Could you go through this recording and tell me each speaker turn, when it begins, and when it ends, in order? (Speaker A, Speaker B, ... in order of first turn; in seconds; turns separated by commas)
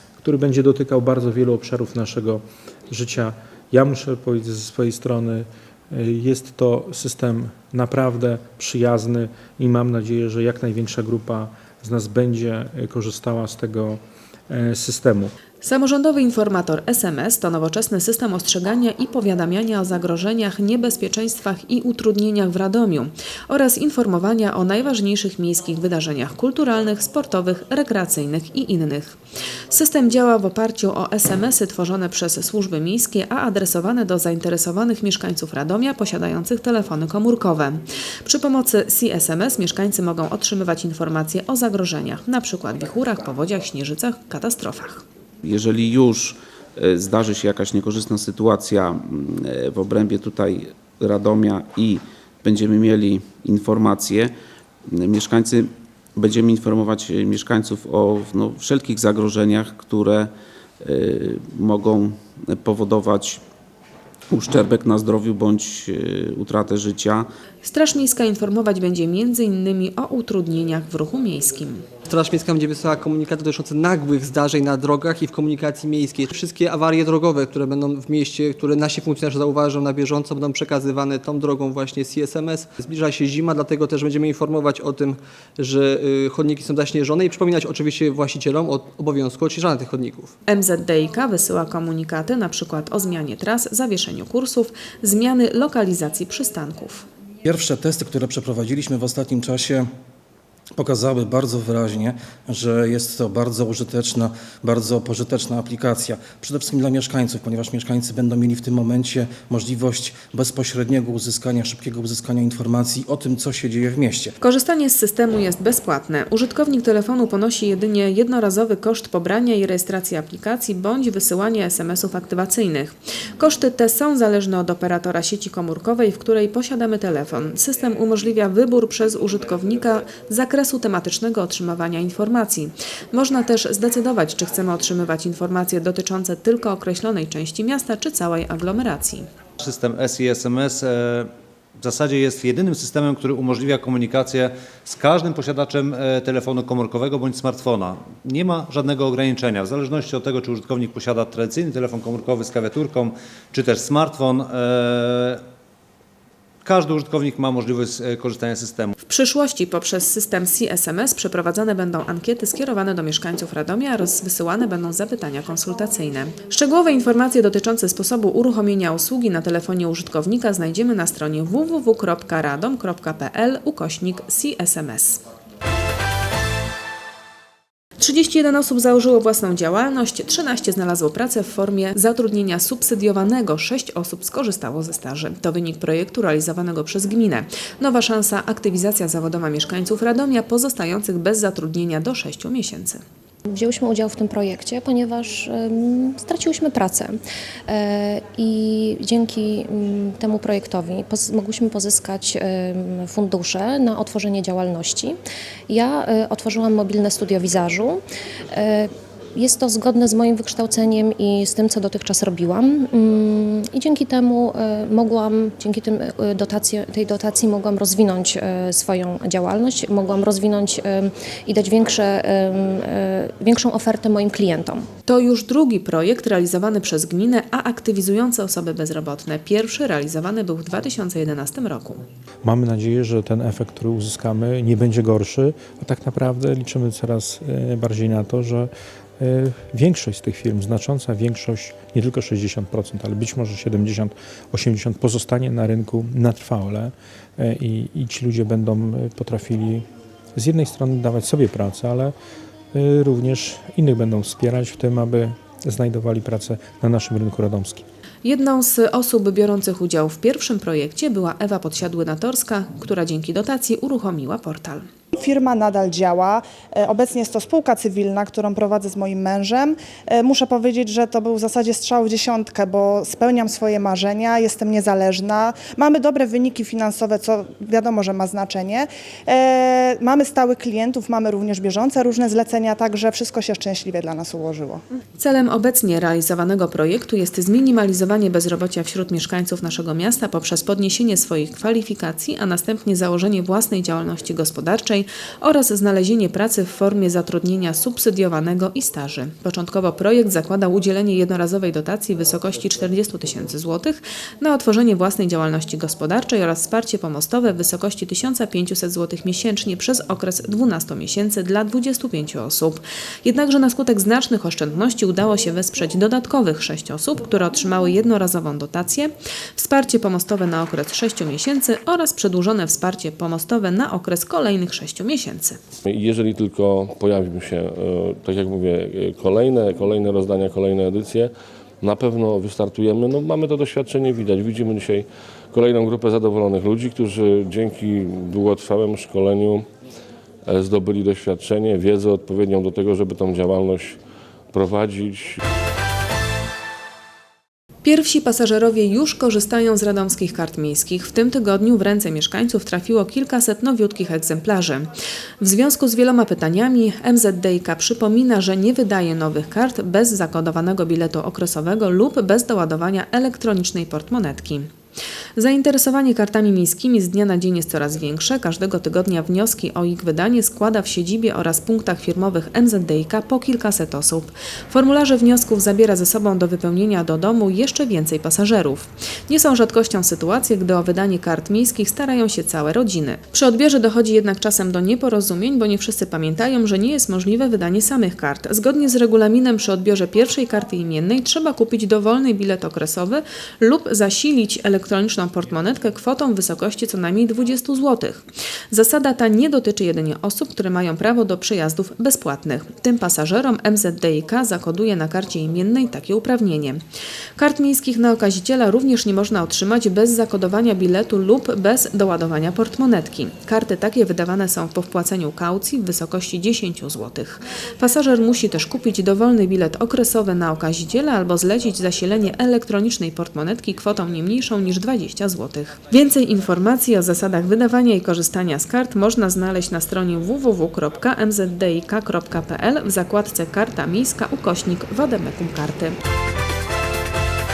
Speaker A: 0.2-15.3, Speaker B: 15.6-29.2, Speaker B: 29.7-45.0, Speaker C: 45.4-54.3, Speaker C: 54.9-63.4, Speaker C: 64.3-67.3, Speaker B: 67.6-71.8, Speaker D: 72.1-90.3, Speaker B: 90.5-97.0, Speaker E: 97.4-99.8, Speaker E: 100.8-114.3, Speaker B: 114.4-139.3, Speaker F: 139.6-155.4, Speaker F: 156.6-158.9, Speaker B: 159.0-175.2, Speaker B: 178.0-193.0, Speaker G: 193.5-197.2, Speaker G: 197.7-205.2, Speaker G: 205.7-224.9, Speaker B: 225.1-232.0, Speaker A: 232.4-249.8, Speaker A: 250.3-252.1, Speaker A: 252.7-257.8, Speaker B: 258.2-264.9, Speaker H: 265.1-284.8, Speaker B: 285.2-325.6, Speaker I: 325.9-339.6, Speaker I: 340.4-344.0, Speaker I: 344.5-345.4, Speaker B: 347.8-354.9, Speaker B: 355.4-364.7, Speaker B: 365.4-406.8, Speaker B: 407.4-435.9